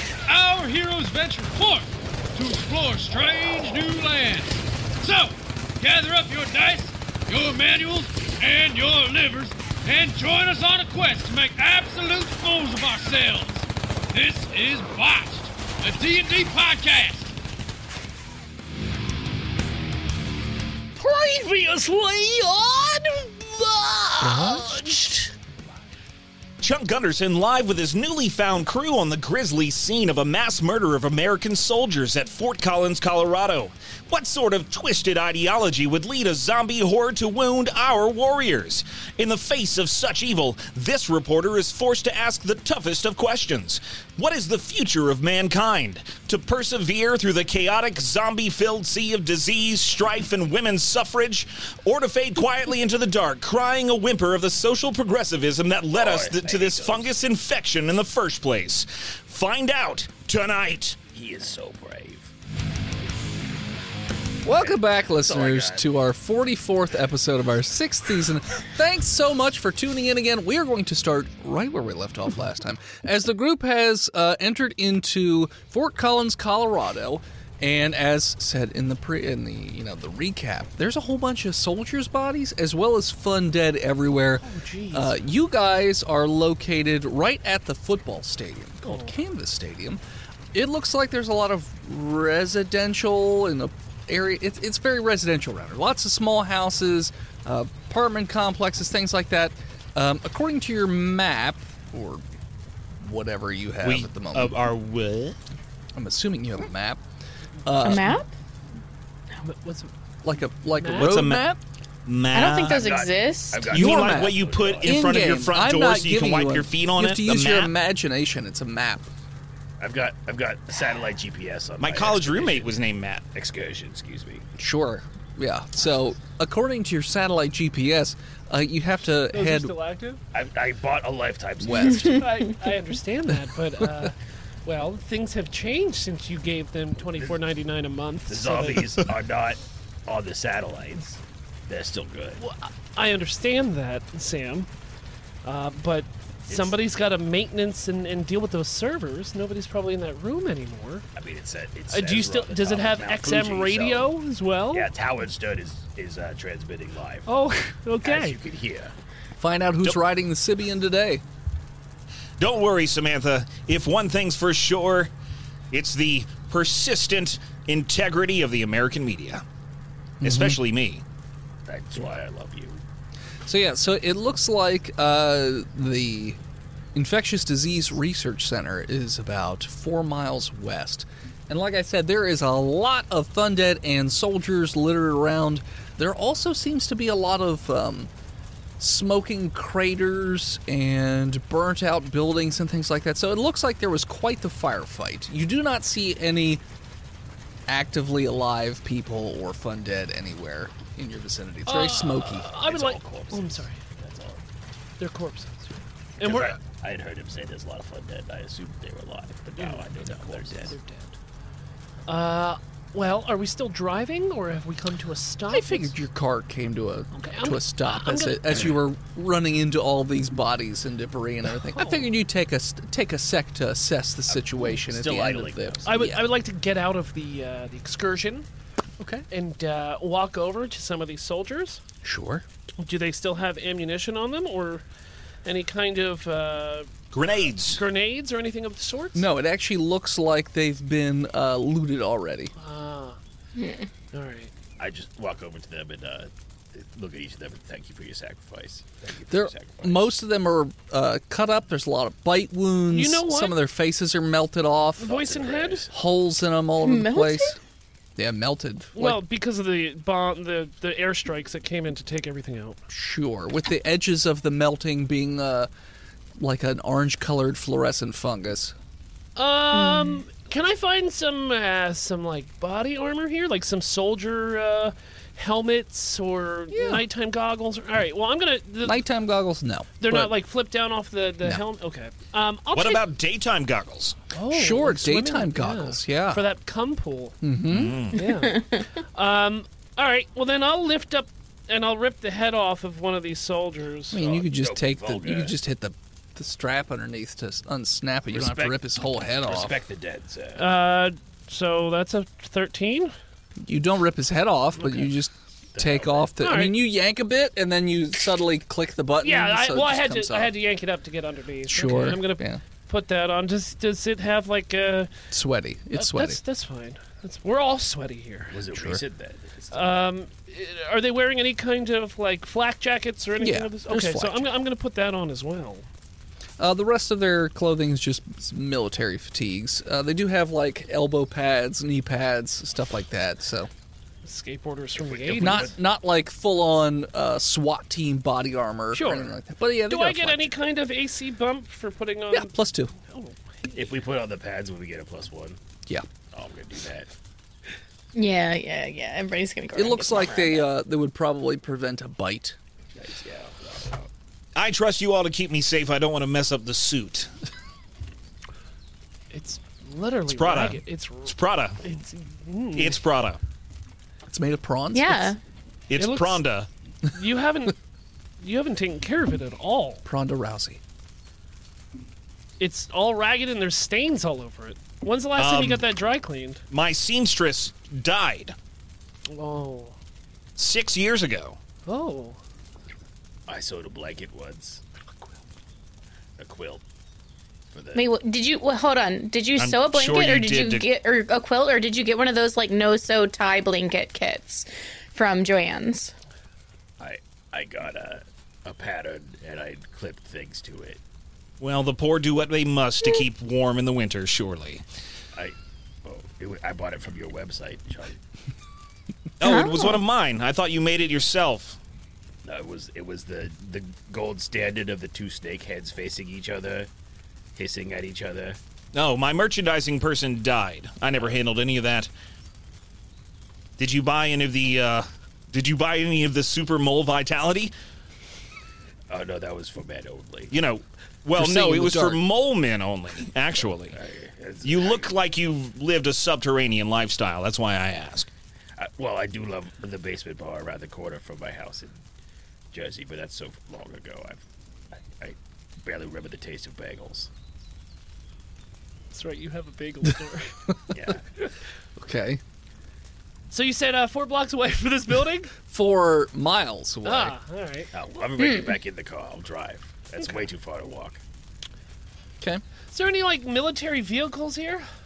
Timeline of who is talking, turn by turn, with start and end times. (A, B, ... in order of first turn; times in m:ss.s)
0:00.2-0:17.3 A
0:21.0-0:25.3 B
0:26.6-1:01.0 C
0:55.9-0:57.1 D
1:01.1-1:02.3 D
1:04.4-1:30.0 B
1:04.6-1:05.9 D
1:24.4-1:25.3 E
1:28.8-1:29.1 E
1:30.5-1:42.2 B
1:43.0-1:44.6 B
1:43.8-1:45.4 C
1:46.0-1:47.0 B
1:47.6-1:48.2 B
1:47.8-1:48.3 F
1:49.4-1:49.9 E
1:50.2-1:51.6 B
1:50.7-1:51.2 E
1:50.9-1:51.5 C
1:52.0-1:52.8 C
1:52.3-1:53.8 F
1:52.6-1:55.0 D
1:53.7-1:57.7 C
1:53.7-1:59.1 B
1:59.8-2:02.8 D
2:01.8-2:03.2 C
2:03.3-2:04.4 D
2:04.6-2:09.7 B
2:09.3-2:10.2 E
2:10.3-2:12.2 D
2:11.6-2:12.1 B
2:12.0-2:19.0 E
2:17.1-2:17.4 D
2:18.3-2:22.4 D
2:22.4-2:24.7 E
2:25.4-2:31.1 E
2:26.5-2:26.7 D
2:31.1-2:34.1 D
2:31.9-2:34.9 E
2:34.7-2:37.3 D
2:37.2-2:38.4 E
2:38.0-2:38.9 D
2:39.4-2:41.2 B
2:42.4-2:45.1 C
2:45.7-2:49.4 C
2:50.2-2:50.6 B
2:50.2-2:51.0 C
2:51.6-2:52.8 D
2:53.4-2:56.4 B
2:56.9-3:08.1 B
3:08.8-3:16.6 B
3:17.7-3:22.5 B
3:21.6-3:23.8 E
3:22.6-3:24.4 D
3:25.0-3:26.6 E
3:26.2-3:30.7 D
3:29.6-3:31.1 E
3:32.1-3:36.0 E
3:35.5-3:46.3 B
3:37.1-3:38.7 E
3:41.8-3:42.1 E
3:44.3-3:46.0 D
3:45.8-3:48.5 E
3:49.0-3:49.2 B
3:49.3-3:51.8 E
3:52.0-3:52.4 B
3:52.8-3:54.8 E
3:55.4-3:56.9 E
3:57.1-3:57.8 C
3:57.6-3:59.3 E
3:59.1-4:02.5 B
4:02.6-4:03.2 E
4:04.1-4:04.5 E
4:04.8-4:10.1 D
4:09.3-4:15.2 B
4:12.9-4:13.6 E
4:15.0-4:15.9 E
4:15.0-4:15.9 D
4:15.9-4:17.6 B
4:16.8-4:17.6 F
4:18.2-4:19.2 B
4:18.9-4:22.8 E
4:22.9-4:25.7 B
4:26.4-4:28.7 B
4:29.4-4:39.0 E
4:36.7-4:37.0 B
4:38.8-4:40.3 B
4:40.0-4:43.0 E
4:42.7-4:44.2 C
4:44.3-4:47.4 E
4:44.5-4:46.5 B
4:47.4-4:48.0 B
4:47.7-4:48.2 C
4:48.1-4:54.2 E
4:54.1-4:59.8 B
4:54.2-4:55.5 D
4:58.3-5:00.7 D
5:00.6-5:03.1 E
5:03.6-5:10.5 B
5:04.8-5:05.0 E
5:05.7-5:06.3 D
5:06.4-5:06.8 E
5:09.2-5:15.1 E
5:11.7-5:12.6 B
5:15.3-5:16.4 B
5:15.9-5:18.6 E
5:18.5-5:20.0 D
5:18.7-5:19.0 B
5:19.7-5:25.8 E
5:23.4-5:24.5 B
5:26.6-5:33.7 B
5:34.2-5:35.7 E
5:35.0-5:35.8 D
5:35.4-5:40.5 B
5:38.9-5:43.7 E
5:42.3-5:42.9 B
5:43.7-5:45.6 D
5:46.3-5:47.1 D
5:48.1-5:50.7 F
5:49.7-5:52.6 B
5:52.9-5:54.1 D
5:54.6-5:57.3 C
5:59.3-6:03.0 E
6:00.3-6:01.8 C
6:02.8-6:03.4 C
6:04.3-6:05.3 B
6:04.9-6:05.4 F
6:05.9-6:06.7 C
6:06.0-6:06.4 E
6:07.1-6:07.8 E
6:08.4-6:10.0 E
6:10.0-6:10.8 B
6:12.6-6:16.6 E
6:15.4-6:15.8 C
6:16.7-6:18.5 C
6:19.3-6:19.9 E
6:20.6-6:21.6 C
6:21.8-6:22.4 E
6:23.5-6:24.8 D
6:26.4-6:26.8 D
6:27.7-6:28.1 D
6:27.9-6:36.1 F
6:29.6-6:30.9 C
6:37.0-6:41.0 D
6:41.6-6:44.8 C
6:45.3-6:48.2 D
6:49.4-6:51.8 C
6:49.4-6:50.0 F
6:52.4-6:56.9 D
6:57.6-6:58.6 D
6:58.9-7:02.1 C
7:03.8-7:07.7 C
7:09.1-7:10.5 D
7:10.5-7:14.0 C
7:11.3-7:12.2 B
7:13.9-7:15.1 D
7:14.6-7:18.3 C
7:18.8-7:22.0 D
7:22.7-7:24.4 D
7:24.9-7:27.3 D
7:29.1-7:30.7 E
7:30.9-7:31.3 D
7:32.0-7:32.4 B
7:33.5-7:35.5 E
7:35.7-7:37.4 B
7:37.0-7:37.9 E
7:37.9-7:41.2 D
7:42.9-7:44.9 E